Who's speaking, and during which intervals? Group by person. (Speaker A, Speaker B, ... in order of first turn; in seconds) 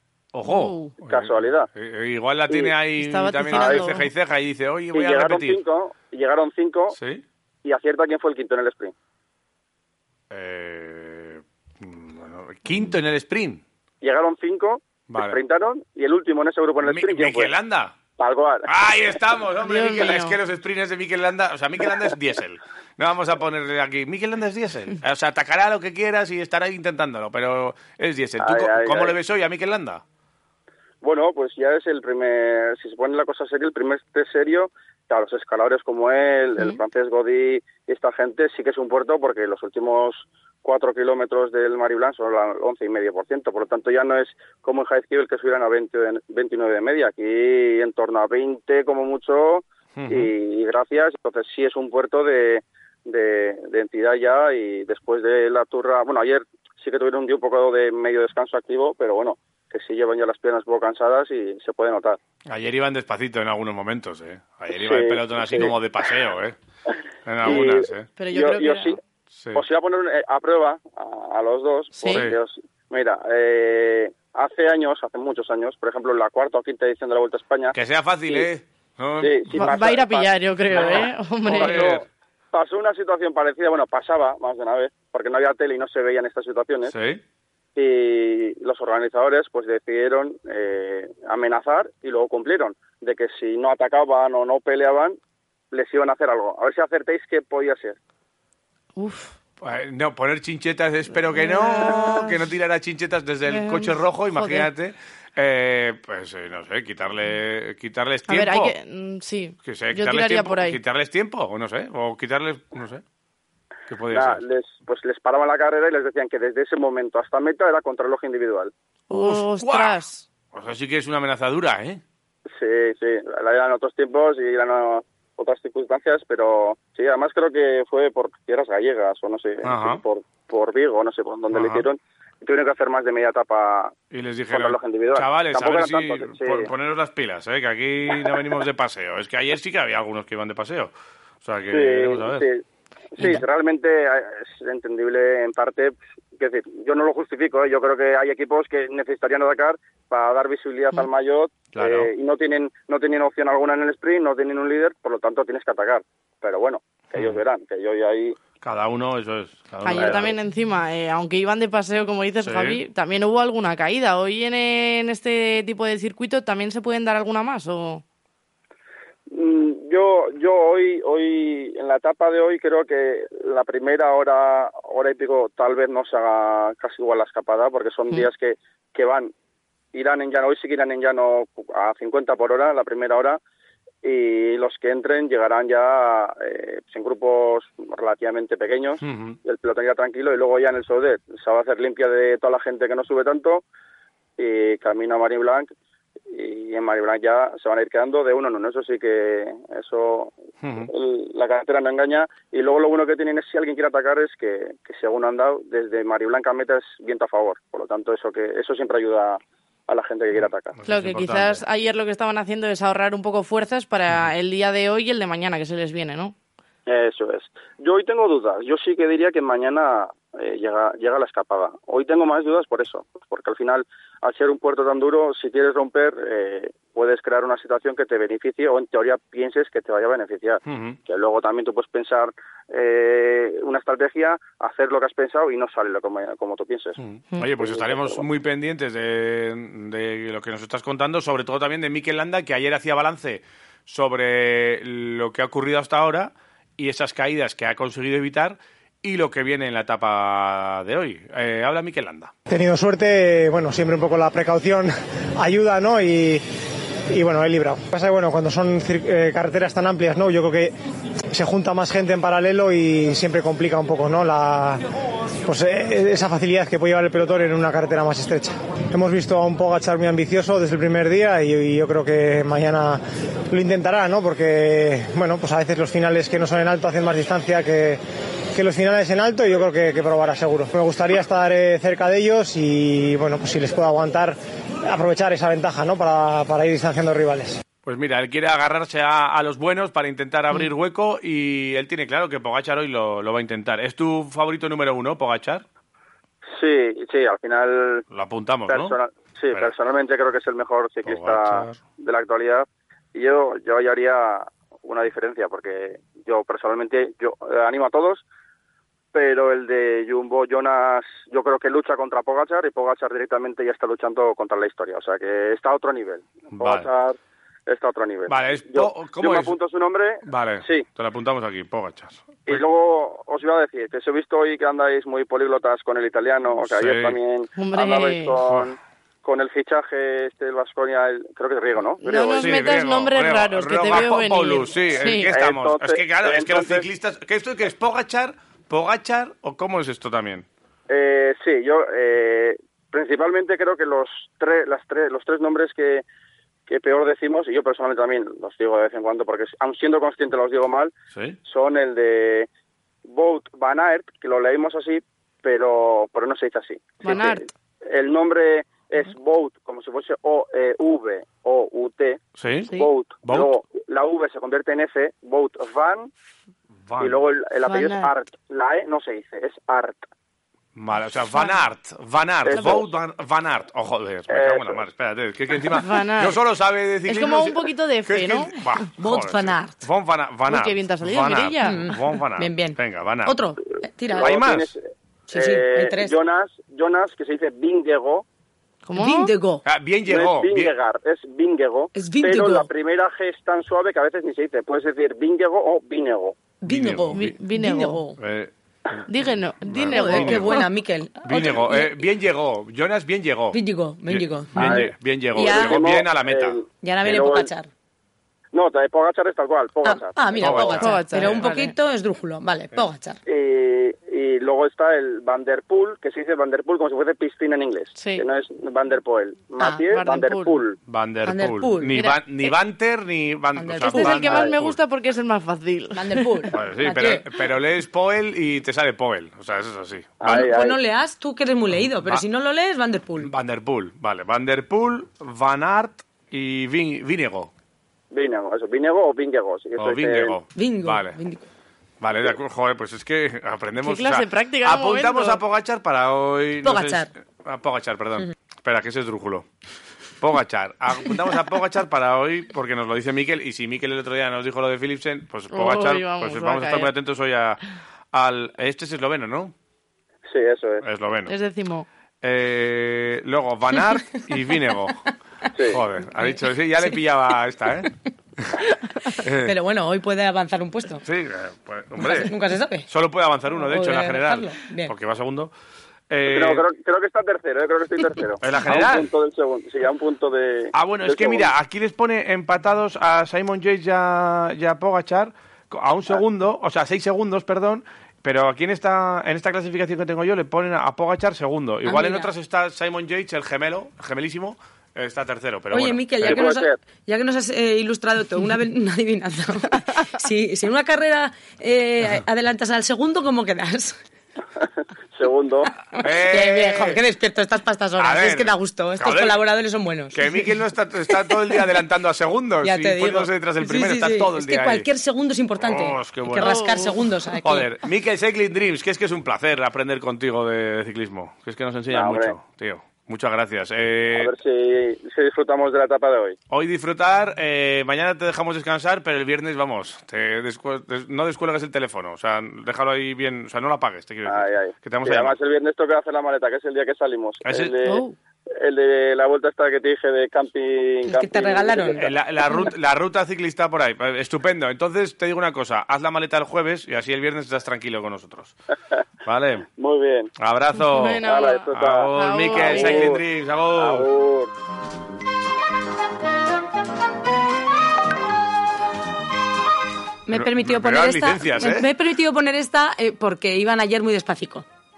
Speaker A: 0.3-5.6, 6.9-7.2, 10.3-13.6, 15.1-15.4, 16.8-17.9, 18.7-30.0, 50.0-50.3, 62.5-66.6, 67.3-68.1, 69.4-69.6, 72.1-72.4, 77.7-79.9, 80.7-82.0, 86.9-87.2, 99.6-108.7, 109.7-113.0, 113.9-114.4, 119.1-120.0, 120.5-122.0, 129.6-130.0, 131.5-131.8, 134.1-140.9, 141.4-142.4, 151.7-152.1, 157.2-157.4, 158.6-160.3, 162.4-162.8, 189.0-189.4, 200.6-200.9, 210.8-211.6, 230.7-231.0, 237.0-252.3, 287.9-295.6, 298.1-299.0, 301.1-301.8, 316.5-316.9, 318.3-319.5, 320.2-322.6, 326.7-327.2, 332.4-340.5, 362.4-363.5, 366.9-367.2, 370.8-383.4, 384.2-384.7, 389.7-390.7, 396.7-397.4, 398.2-399.1, 399.7-400.7, 401.2-406.6, 410.4-411.4, 420.9-424.8, 426.5-430.4, 431.8-432.2, 433.2-437.5, 439.8-441.2, 442.0-449.5, 450.2-457.6, 458.1-459.5, 460.8-461.3, 462.2-465.0, 465.7-468.6, 469.2-469.5, 471.1-472.3, 472.9-475.5, 476.1-476.6, 478.4-479.1, 480.7-496.5, 506.0-507.0, 508.0-509.4, 510.1-514.9, 515.6-516.7, 517.4-524.3, 526.5-535.4, 537.5-537.7, 542.0-548.6, 549.2-549.7, 550.4-554.1, 560.3-561.9
Speaker B: 0.5-0.9, 3.0-4.1, 19.6-20.4, 68.2-69.0, 72.0-72.2, 79.6-81.8, 99.0-99.4, 101.2-102.4, 103.5-104.7, 108.3-110.8, 119.1-120.2, 159.8-168.0, 210.9-216.3, 327.6-328.4, 332.0-335.3, 357.0-357.5, 367.7-368.1, 375.7-376.4, 377.1-378.5, 380.5-381.8, 388.9-389.3, 397.1-398.0, 399.1-400.6, 410.8-411.7, 418.0-418.2, 419.9-420.6, 423.9-426.5, 443.8-445.4, 455.5-456.9, 461.3-461.9, 516.4-517.0, 537.9-538.2, 550.8-553.1
Speaker C: 1.1-1.7, 3.5-3.9, 4.9-7.0, 7.6-8.9, 14.0-17.5, 18.2-18.7, 28.4-29.1, 31.0-62.2, 64.7-65.8, 67.4-69.0, 69.5-77.8, 79.2-86.9, 87.8-95.2, 95.7-98.0, 114.1-118.7, 122.5-133.9, 134.5-136.7, 141.7-142.6, 143.2-158.4, 160.0-160.3, 169.3-179.3, 179.9-183.4, 184.0-193.6, 194.4-195.7, 196.3-200.3, 200.8-210.8, 216.9-237.0, 237.6-238.2, 296.5-298.1, 298.7-308.2, 309.1-320.8, 322.5-332.6, 335.3-336.9, 340.9-346.0, 346.7-350.9, 351.4-352.5, 353.1-362.2, 362.7-366.1, 367.0-370.1, 372.5-372.9, 374.3-374.8, 384.1-384.8, 385.3-388.2, 390.1-396.5, 404.6-407.5, 408.5-410.8, 413.3-420.8, 430.2-430.8, 438.1-440.4, 460.3-460.8, 465.6-465.8, 476.3-481.5, 496.2-496.8, 505.1-505.7, 521.9-522.4, 524.1-526.4, 534.3-538.0, 538.6-542.1, 549.8-550.3, 551.2-553.2, 553.8-554.5
Speaker D: 252.5-256.4, 257.1-260.8, 261.3-264.8, 265.4-278.0, 278.5-287.6
Speaker E: 379.0-379.8, 381.6-384.3, 385.3-386.1, 389.0-389.6, 391.9-392.7, 396.6-398.2, 399.9-402.1, 403.5-405.8, 406.8-407.7, 409.9-413.2, 421.2-422.0, 423.6-424.5, 425.9-427.3, 430.2-433.3, 440.5-441.4, 446.6-447.1, 469.4-471.0, 472.0-472.9, 473.6-474.9, 491.9-492.3, 495.7-504.0, 505.9-510.5, 512.6-517.7, 541.1-542.1, 560.3-564.6